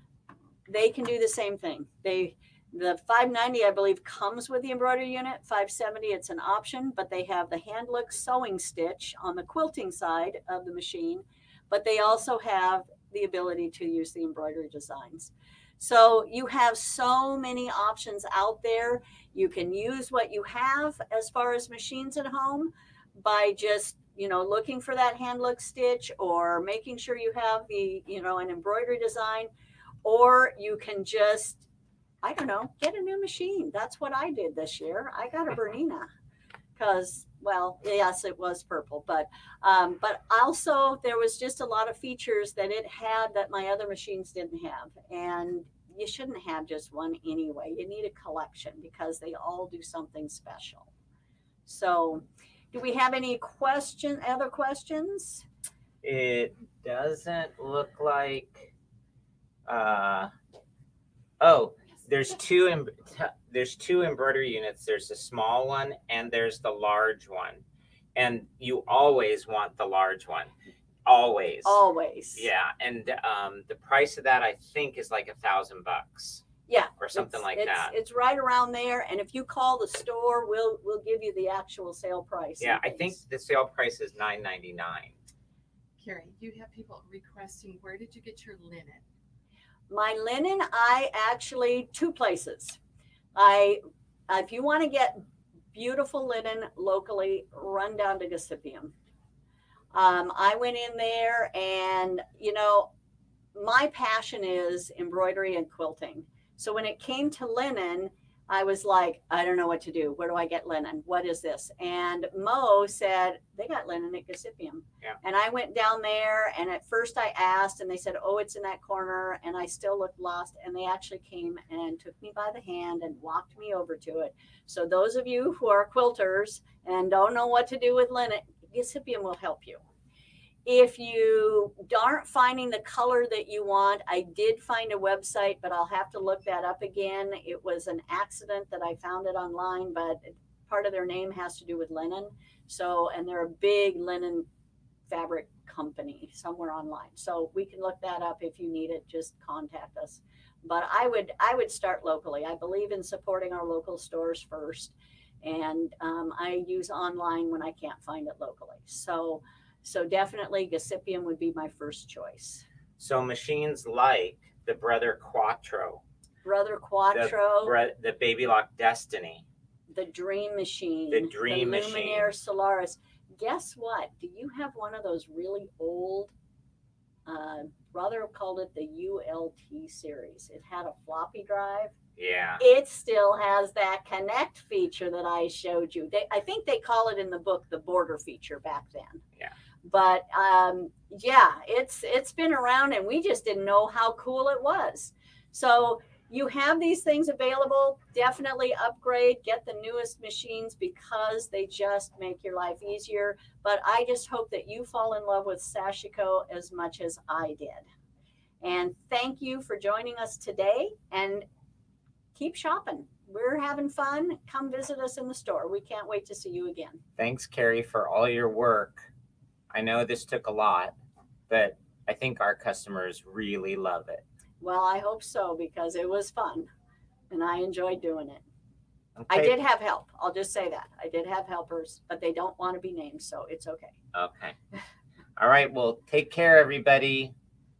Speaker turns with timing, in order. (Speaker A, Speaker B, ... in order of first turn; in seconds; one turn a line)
Speaker A: 0.7-29.5
Speaker A: 30.0-31.6
Speaker A: 32.2-36.1
Speaker A: 36.8-50.9
Speaker A: 51.6-55.4
Speaker B: 56.0-58.7
Speaker B: 59.6-60.3
Speaker B: 61.4-67.6
Speaker B: 68.1-70.5
Speaker B: 71.0-71.8
Speaker A: 71.6-72.5
Speaker B: 72.3-76.4
Speaker A: 76.7-83.2
Speaker B: 77.0-77.9
Speaker B: 82.6-85.2
Speaker C: 86.0-89.0
Speaker A: 89.9-92.8
Speaker A: 93.3-95.2
Speaker A: 95.7-98.9
Speaker A: 99.9-102.9
Speaker A: 103.5-129.8
Speaker A: 130.7-144.5
Speaker A: 145.1-162.6
Speaker B: 163.0-166.0
Speaker A: 166.4-167.7
Speaker B: 167.1-169.4
Speaker A: 169.9-176.3
Speaker B: 171.1-172.3
Speaker A: 177.2-181.9
Speaker B: 182.2-182.6
Speaker A: 182.6-189.2
Speaker A: 189.8-207.8
Speaker A: 208.6-211.4
Speaker A: 212.3-217.0
Speaker B: 217.2-219.1
Speaker B: 219.7-220.9
Speaker B: 221.5-224.2
Speaker A: 224.6-226.7
Speaker A: 227.3-228.4
Speaker B: 229.2-229.6
Speaker A: 229.3-233.9
Speaker B: 234.1-234.6
Speaker B: 235.4-237.3